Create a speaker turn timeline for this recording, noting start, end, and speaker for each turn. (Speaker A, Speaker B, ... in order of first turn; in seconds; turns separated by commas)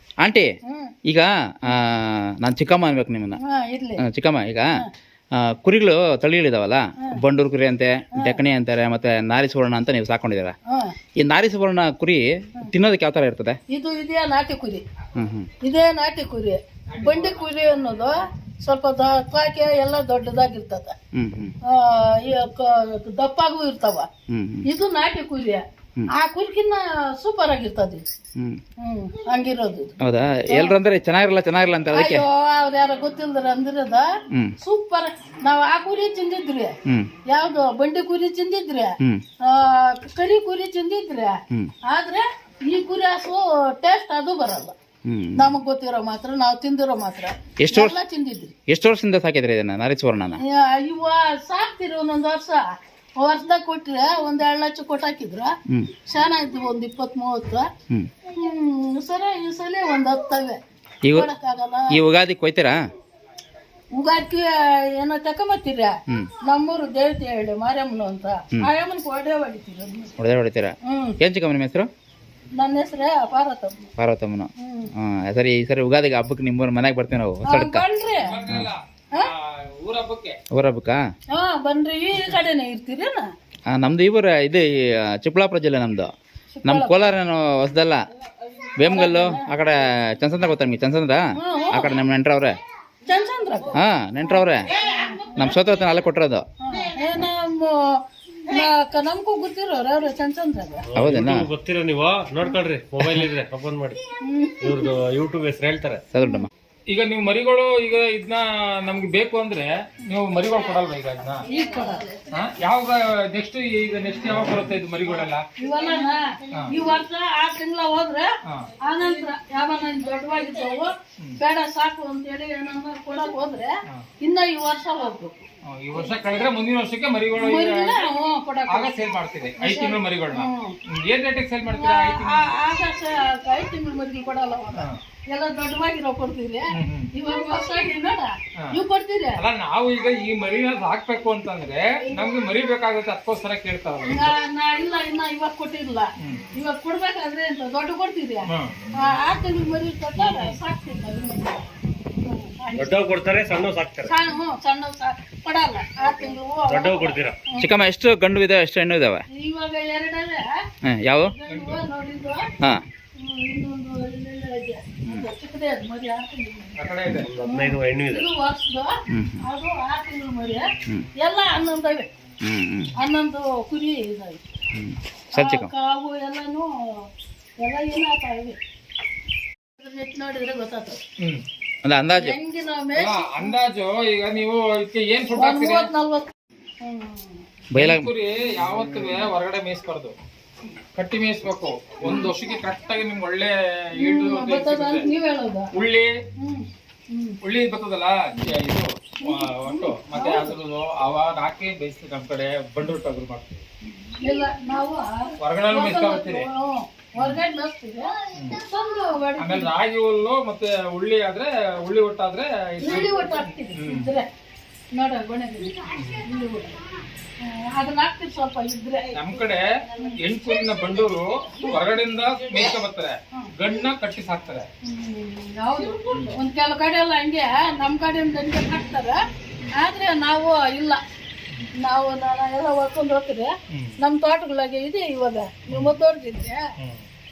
Speaker A: 0.2-0.5, Speaker B: 0.7-0.9, Speaker A: 1.1-3.4, Speaker B: 3.4-4.0, Speaker A: 4.0-4.7, Speaker A: 5.4-10.6, Speaker B: 8.2-8.4, Speaker B: 10.7-10.9, Speaker A: 11.2-13.6, Speaker B: 13.7-14.8, Speaker A: 15.2-15.5, Speaker B: 15.6-20.9, Speaker C: 16.9-17.5, Speaker A: 21.1-21.5, Speaker B: 21.6-24.1, Speaker A: 24.3-24.6, Speaker B: 24.6-28.0, Speaker B: 28.8-29.9, Speaker A: 30.0-32.2, Speaker B: 30.5-30.8, Speaker B: 31.9-34.1, Speaker B: 34.6-36.8, Speaker A: 36.9-37.1, Speaker B: 37.3-44.8, Speaker A: 45.1-45.5, Speaker B: 45.4-48.5, Speaker A: 47.6-48.0, Speaker A: 48.7-50.4, Speaker B: 50.4-55.5, Speaker B: 56.0-57.7, Speaker B: 58.3-60.6, Speaker A: 61.0-61.3, Speaker B: 61.1-62.0, Speaker A: 61.9-62.8, Speaker B: 63.9-70.1, Speaker A: 70.2-71.9, Speaker B: 70.9-71.2, Speaker B: 72.6-73.9, Speaker A: 74.0-77.8, Speaker B: 74.6-74.9, Speaker B: 77.5-78.4, Speaker C: 78.2-80.4, Speaker A: 80.5-81.0, Speaker B: 81.3-83.3, Speaker A: 83.7-86.1, Speaker B: 86.5-87.1, Speaker A: 86.7-88.0, Speaker A: 88.8-92.6, Speaker B: 88.8-89.5, Speaker B: 91.4-92.0, Speaker B: 93.1-93.8, Speaker A: 93.8-94.7, Speaker B: 94.7-95.6, Speaker A: 95.4-96.5, Speaker B: 96.6-100.9, Speaker D: 100.9-104.0, Speaker A: 101.0-101.5, Speaker B: 104.2-104.9, Speaker D: 104.6-106.0, Speaker A: 106.1-106.5, Speaker C: 106.9-111.5, Speaker B: 111.5-112.1, Speaker C: 112.3-115.5, Speaker B: 115.6-118.3, Speaker B: 118.8-125.5, Speaker C: 125.7-128.1, Speaker B: 127.4-128.9, Speaker C: 128.7-132.5, Speaker B: 129.6-130.8, Speaker B: 131.7-139.4, Speaker C: 136.7-137.1, Speaker C: 139.4-144.4, Speaker B: 144.1-151.6, Speaker C: 146.2-146.5, Speaker C: 148.5-148.9, Speaker C: 150.2-150.6, Speaker B: 152.2-153.1, Speaker D: 152.7-154.1, Speaker B: 154.0-157.7, Speaker D: 156.7-157.4, Speaker A: 157.6-159.2, Speaker B: 159.3-160.6, Speaker A: 160.8-161.3, Speaker B: 161.4-162.5, Speaker C: 161.5-161.8, Speaker B: 163.2-166.8, Speaker C: 166.8-167.3, Speaker D: 167.2-168.3, Speaker B: 167.4-172.1, Speaker A: 169.1-169.4, Speaker A: 172.4-172.9, Speaker B: 173.0-174.4, Speaker A: 174.7-175.7, Speaker B: 175.3-177.1, Speaker B: 177.6-178.6, Speaker B: 179.8-181.0, Speaker A: 181.8-182.4, Speaker B: 182.2-183.5, Speaker C: 182.9-185.9, Speaker B: 185.4-186.3, Speaker B: 186.8-187.4, Speaker A: 187.7-188.1, Speaker C: 187.8-190.2, Speaker C: 191.0-195.1, Speaker B: 194.0-195.7, Speaker C: 195.7-196.1, Speaker B: 196.4-197.4, Speaker C: 197.4-203.7, Speaker B: 199.2-200.5, Speaker B: 204.1-209.7, Speaker C: 205.4-206.5, Speaker C: 207.2-207.4, Speaker C: 209.4-214.1, Speaker B: 212.8-214.3, Speaker B: 214.9-216.8, Speaker C: 215.9-216.3, Speaker B: 217.4-219.2, Speaker C: 219.1-219.7, Speaker C: 220.2-224.7, Speaker B: 224.8-229.2, Speaker C: 226.1-226.4, Speaker B: 229.8-231.0, Speaker B: 231.8-236.6, Speaker C: 235.7-235.9